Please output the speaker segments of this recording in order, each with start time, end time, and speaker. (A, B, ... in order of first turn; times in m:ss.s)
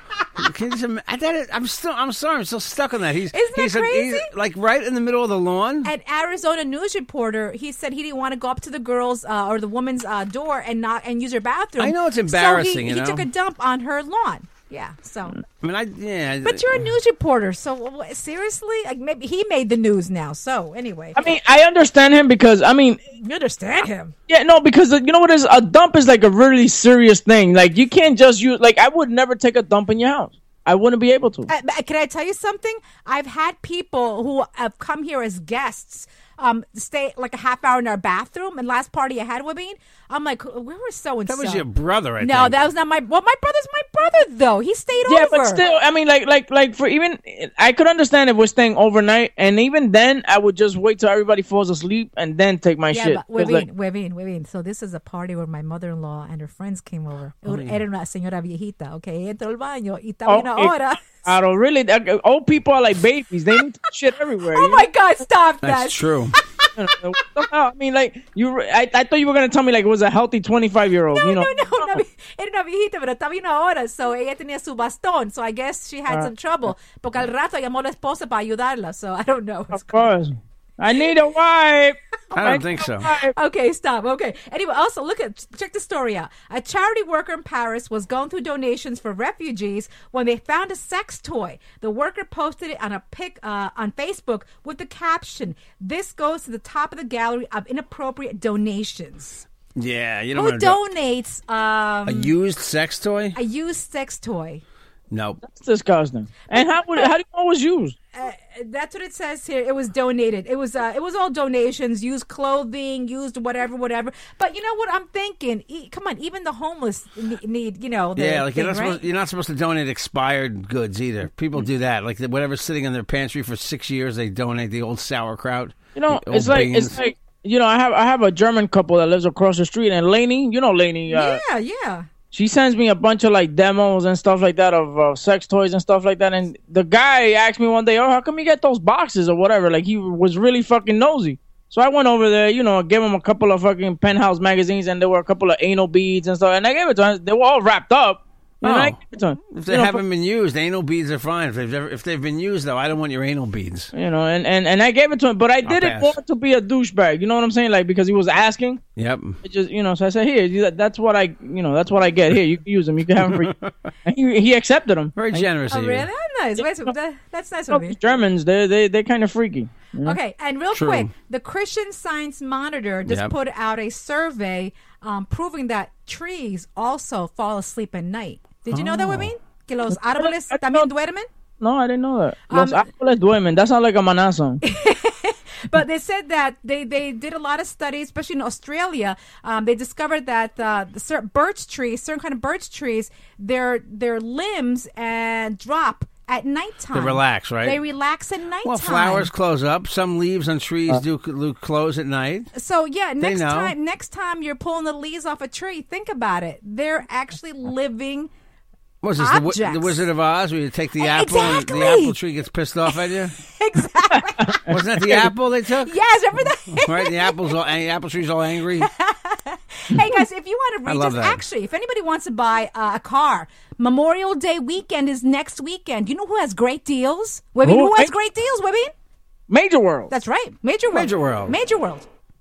0:00.4-0:05.9 A
0:03.3-0:04.3 B
0:05.8-0:15.4 B
0:11.8-0:13.3 A
0:15.6-0:16.8 A
0:16.4-0:21.2 B
0:21.2-0:23.0 C
0:23.2-0:24.1 B
0:24.3-0:31.5 C
0:31.5-0:41.6 B
0:41.3-0:42.6 A
0:42.2-0:45.6 B
0:45.0-0:53.6 C
0:52.9-1:01.2 B
0:57.5-0:57.8 A
1:00.2-1:04.9 C
1:04.5-1:06.7 B
1:05.6-1:06.4 A
1:06.7-1:12.0 C
1:11.1-1:20.1 B
1:19.7-1:23.3 C
1:22.3-1:23.1 A
1:23.1-1:39.4 B
1:39.8-1:40.8 A
1:40.3-1:42.3 B
1:42.1-1:43.4 A
1:43.3-1:44.6 B
1:45.1-1:45.4 A
1:45.4-1:48.0 C
1:46.5-1:47.1 B
1:48.1-1:59.0 B
1:58.2-2:06.9 A
2:05.9-2:11.4 C
2:11.1-2:12.0 B
2:12.3-2:30.0 C
2:28.6-2:33.9 A
2:33.9-2:38.8 C
2:35.6-2:36.2 A
2:39.0-2:39.4 A
2:39.4-2:43.5 C
2:43.2-2:43.9 A
2:44.0-2:45.5 C
2:45.2-2:46.1 A
2:45.7-2:48.0 B
2:46.6-2:46.9 C
2:47.7-2:50.2 C
2:50.0-3:01.3 B
2:50.7-2:51.1 A
2:53.0-2:53.3 A
2:58.7-2:59.3 C
2:59.9-3:00.9 C
3:01.6-3:04.6 C
3:02.5-3:02.9 B
3:04.6-3:19.3 B
3:16.9-3:17.8 A
3:18.6-3:22.5 A
3:22.5-3:28.3 B
3:23.2-3:23.7 A
3:29.0-3:33.3 A
3:29.2-3:30.0 B
3:31.0-3:32.2 B
3:33.5-3:34.7 B
3:34.1-3:35.3 C
3:34.7-3:36.0 A
3:35.8-3:37.5 B
3:36.8-3:38.9 A
3:38.8-3:48.9 B
3:40.8-3:41.4 A
3:47.6-3:48.1 C
3:49.5-3:50.1 C
3:50.1-3:52.0 B
3:50.9-3:51.5 A